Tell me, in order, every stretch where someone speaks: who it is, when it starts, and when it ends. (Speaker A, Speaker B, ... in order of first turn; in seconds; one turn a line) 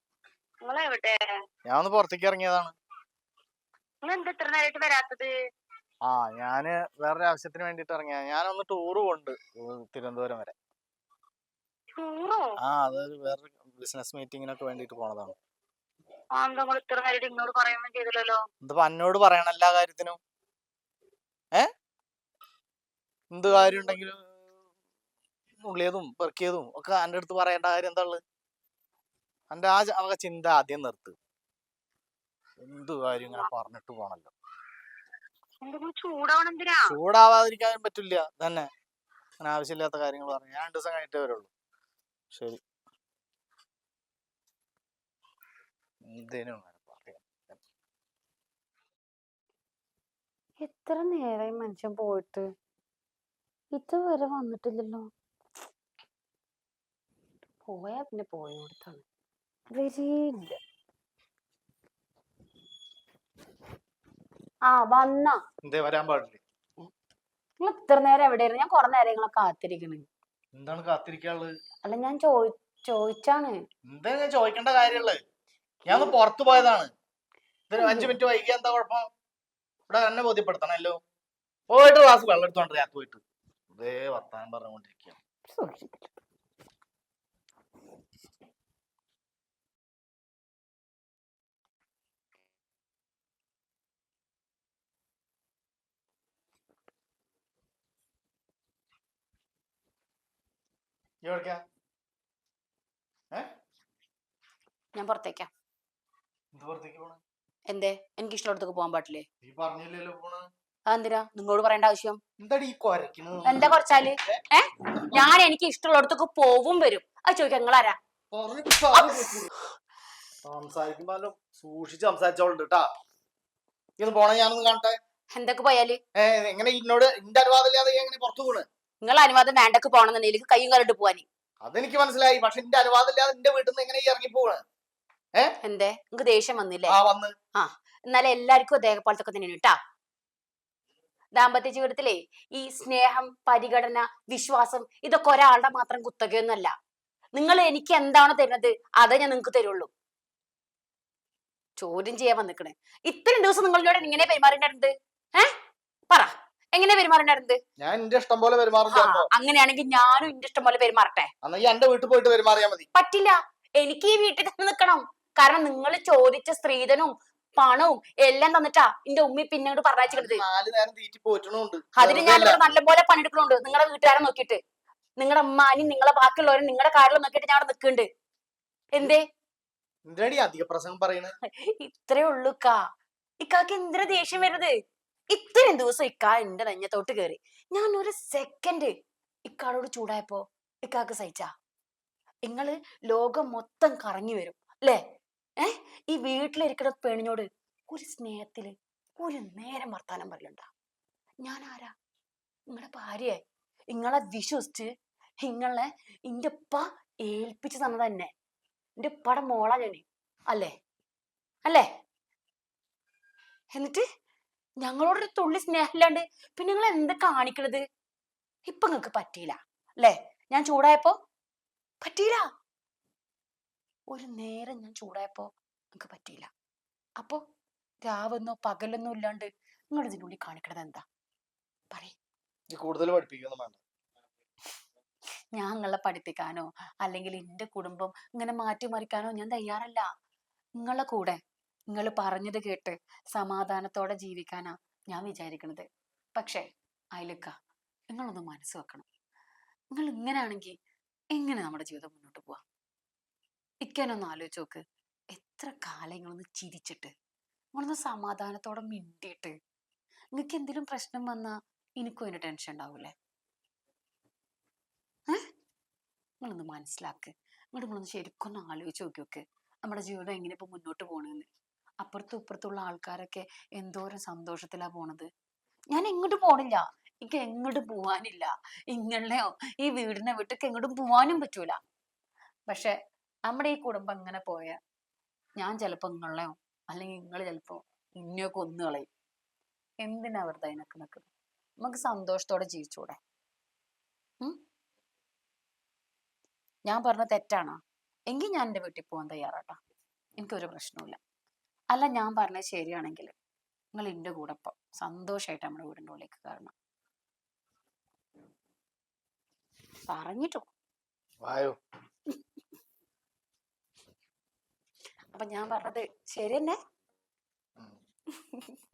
Speaker A: 0.6-1.2
Speaker B: 1.7-2.7
Speaker A: 4.0-5.3
Speaker B: 6.1-10.6
Speaker A: 12.0-12.5
Speaker B: 12.6-15.3
Speaker A: 16.4-18.4
Speaker B: 18.6-20.2
Speaker B: 23.3-24.2
Speaker B: 25.6-28.2
Speaker B: 29.5-31.2
Speaker B: 32.6-34.3
Speaker A: 35.6-36.9
Speaker B: 36.9-38.7
Speaker B: 39.4-41.5
Speaker B: 42.3-42.6
Speaker B: 46.1-47.6
Speaker C: 50.6-52.5
Speaker C: 53.7-55.1
Speaker C: 57.6-59.0
Speaker C: 59.7-60.6
Speaker C: 64.7-65.4
Speaker B: 65.6-66.4
Speaker C: 67.6-70.1
Speaker B: 70.5-71.5
Speaker C: 71.8-73.6
Speaker B: 73.9-75.2
Speaker C: 75.8-76.2
Speaker B: 75.9-76.9
Speaker B: 77.7-79.1
Speaker C: 77.8-78.2
Speaker B: 79.9-81.0
Speaker B: 81.7-83.2
Speaker B: 83.8-85.2
Speaker C: 85.5-86.1
Speaker B: 101.2-101.6
Speaker C: 105.0-105.5
Speaker B: 106.5-107.2
Speaker C: 107.7-109.2
Speaker B: 109.4-110.5
Speaker C: 110.9-112.2
Speaker B: 112.4-113.8
Speaker C: 113.5-118.0
Speaker B: 115.0-115.3
Speaker B: 118.3-119.5
Speaker C: 119.0-119.5
Speaker B: 120.4-122.9
Speaker B: 124.0-125.0
Speaker C: 125.3-126.0
Speaker B: 126.2-128.7
Speaker C: 129.0-131.3
Speaker B: 131.6-134.6
Speaker C: 135.6-137.0
Speaker B: 136.9-137.3
Speaker C: 137.6-139.8
Speaker C: 141.3-146.7
Speaker C: 147.3-149.9
Speaker C: 151.8-155.5
Speaker C: 156.1-157.6
Speaker B: 157.8-159.3
Speaker C: 158.9-161.3
Speaker B: 161.4-162.9
Speaker C: 162.9-170.4
Speaker B: 170.1-172.6
Speaker C: 172.0-174.6
Speaker C: 175.2-178.1
Speaker C: 178.9-179.2
Speaker B: 180.1-181.3
Speaker C: 181.6-182.8
Speaker C: 183.4-184.7
Speaker C: 185.3-188.9
Speaker C: 189.5-191.5
Speaker C: 192.5-195.0
Speaker C: 195.6-200.7
Speaker C: 201.4-201.9
Speaker C: 202.7-203.4
Speaker C: 203.9-204.9
Speaker C: 205.4-208.3
Speaker C: 209.0-210.7
Speaker C: 213.7-214.0
Speaker C: 214.8-217.8
Speaker C: 218.7-221.2
Speaker C: 222.0-222.5
Speaker C: 224.1-226.5
Speaker C: 228.0-231.0
Speaker B: 232.7-233.8
Speaker C: 235.5-240.1
Speaker C: 240.8-241.4
Speaker C: 241.9-245.8
Speaker C: 246.4-246.6
Speaker C: 247.2-247.5
Speaker C: 248.1-249.1
Speaker C: 249.9-250.7
Speaker C: 251.3-252.6
Speaker C: 253.8-254.8
Speaker C: 255.3-257.1
Speaker C: 257.8-259.5
Speaker C: 260.3-263.1
Speaker C: 266.4-271.5
Speaker C: 272.0-275.3
Speaker C: 275.9-281.8
Speaker C: 282.7-282.9
Speaker C: 283.5-284.8
Speaker C: 285.6-289.1
Speaker C: 290.0-291.3
Speaker C: 291.8-293.2
Speaker C: 296.9-297.8
Speaker C: 298.3-299.8
Speaker C: 300.4-301.2
Speaker C: 301.9-303.3
Speaker C: 303.9-306.7
Speaker C: 310.1-310.7
Speaker B: 311.4-311.8
Speaker C: 315.3-316.8
Speaker C: 318.4-318.8